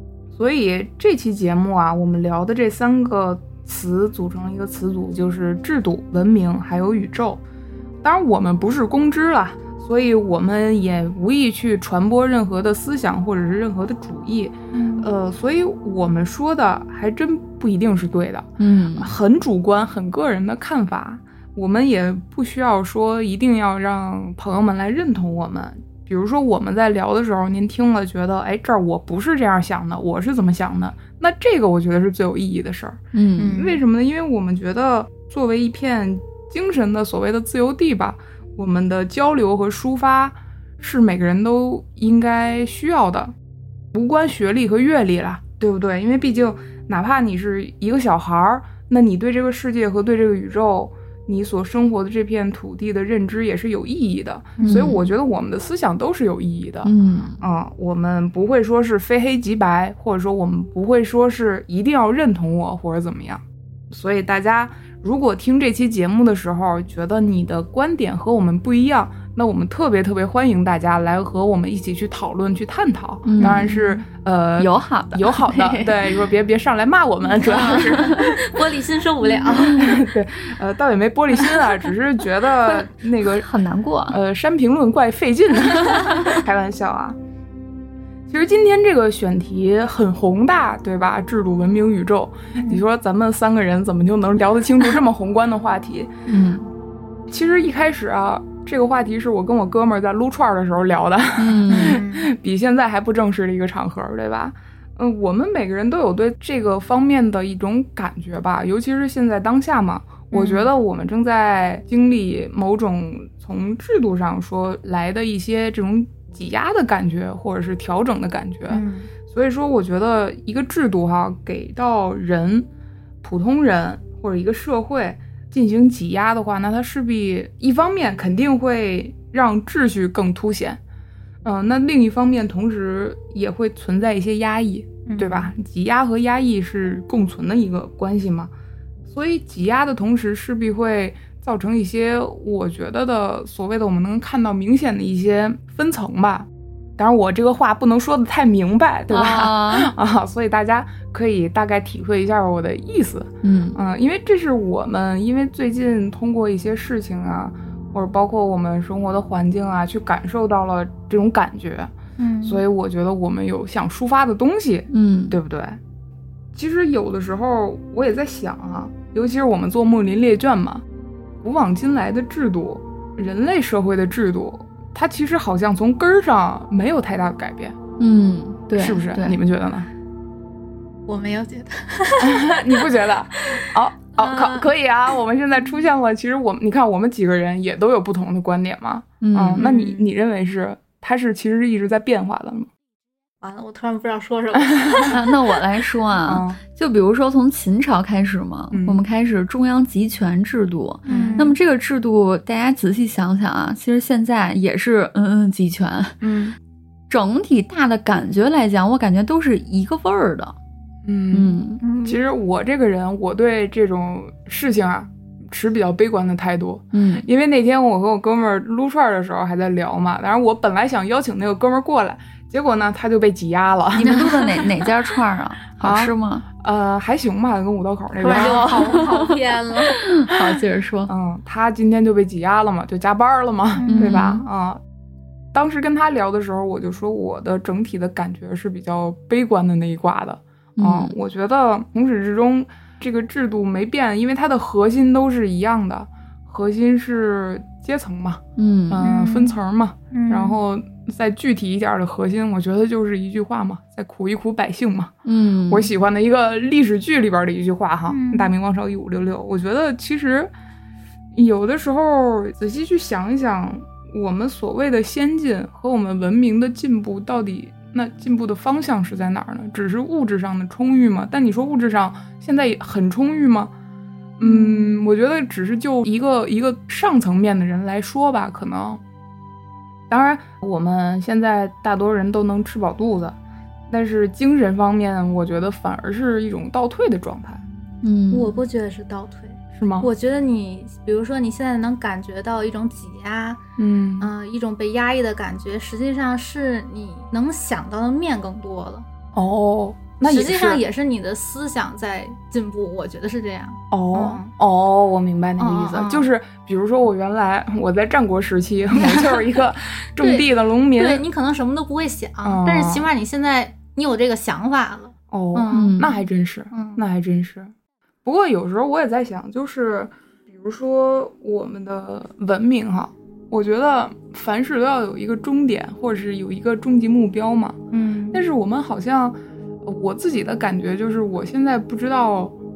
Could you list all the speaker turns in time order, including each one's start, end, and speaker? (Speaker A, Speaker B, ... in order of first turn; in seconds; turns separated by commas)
Speaker A: 0.3-7.4, Speaker A: 8.0-33.0, Speaker B: 14.7-15.1, Speaker C: 18.6-19.1, Speaker C: 33.1-33.6, Speaker B: 33.4-33.8, Speaker A: 33.5-43.3, Speaker A: 43.9-78.5, Speaker B: 54.6-54.9, Speaker C: 54.7-55.1, Speaker C: 56.8-57.4, Speaker C: 73.3-73.8, Speaker B: 73.4-74.0, Speaker C: 74.6-76.3, Speaker C: 77.3-78.4, Speaker B: 77.4-80.0, Speaker C: 79.5-80.0, Speaker A: 79.5-83.5, Speaker C: 82.5-84.2, Speaker A: 84.1-87.2, Speaker C: 85.9-86.4, Speaker A: 88.3-96.1, Speaker B: 92.6-92.8, Speaker C: 96.3-96.7, Speaker A: 97.3-122.7, Speaker C: 101.4-102.0, Speaker B: 101.7-102.3, Speaker B: 110.3-110.7, Speaker B: 118.7-119.1, Speaker A: 123.2-130.8, Speaker A: 131.4-138.5, Speaker B: 135.1-135.6, Speaker A: 139.1-146.5, Speaker A: 147.0-161.9, Speaker C: 149.1-149.9, Speaker C: 153.4-153.8, Speaker B: 162.2-162.6, Speaker A: 162.4-165.8, Speaker C: 164.9-165.4, Speaker A: 166.6-170.8, Speaker A: 171.4-177.8, Speaker C: 178.0-179.4, Speaker A: 178.8-179.9, Speaker B: 181.1-183.6, Speaker A: 182.2-192.7, Speaker B: 184.2-184.7, Speaker C: 189.2-189.6, Speaker B: 189.6-190.1, Speaker B: 193.4-195.2, Speaker A: 194.6-195.1, Speaker C: 195.1-206.2, Speaker A: 196.2-196.6, Speaker A: 198.7-199.0, Speaker B: 201.1-201.6, Speaker A: 201.1-201.4, Speaker A: 206.2-206.6, Speaker C: 207.1-210.6, Speaker A: 211.0-224.4, Speaker C: 211.3-211.8, Speaker B: 211.8-212.2, Speaker C: 216.9-217.3, Speaker C: 223.9-226.4, Speaker B: 224.1-224.7, Speaker A: 225.8-229.0, Speaker B: 228.2-230.0, Speaker C: 228.3-231.1, Speaker A: 230.3-234.8, Speaker B: 233.8-234.2, Speaker C: 233.9-234.4, Speaker A: 235.5-255.1, Speaker C: 240.8-241.2, Speaker C: 248.6-249.0, Speaker B: 249.0-249.6, Speaker B: 250.1-250.6, Speaker C: 255.3-255.9, Speaker A: 255.7-260.5, Speaker B: 258.1-258.5, Speaker A: 261.3-273.7, Speaker A: 274.4-279.0, Speaker B: 274.4-274.9, Speaker A: 280.1-283.4, Speaker A: 283.9-287.6, Speaker C: 288.0-288.6, Speaker B: 288.3-293.6, Speaker A: 289.7-290.1, Speaker A: 293.8-294.3, Speaker B: 294.2-299.1, Speaker A: 299.3-300.8, Speaker B: 300.2-304.5, Speaker A: 303.9-311.3, Speaker B: 305.6-306.3, Speaker C: 308.9-309.3, Speaker B: 308.9-316.1, Speaker A: 312.4-313.1, Speaker A: 315.3-317.7, Speaker C: 315.7-316.1, Speaker B: 316.7-317.0, Speaker A: 318.2-327.8, Speaker B: 327.9-328.4, Speaker A: 328.3-332.6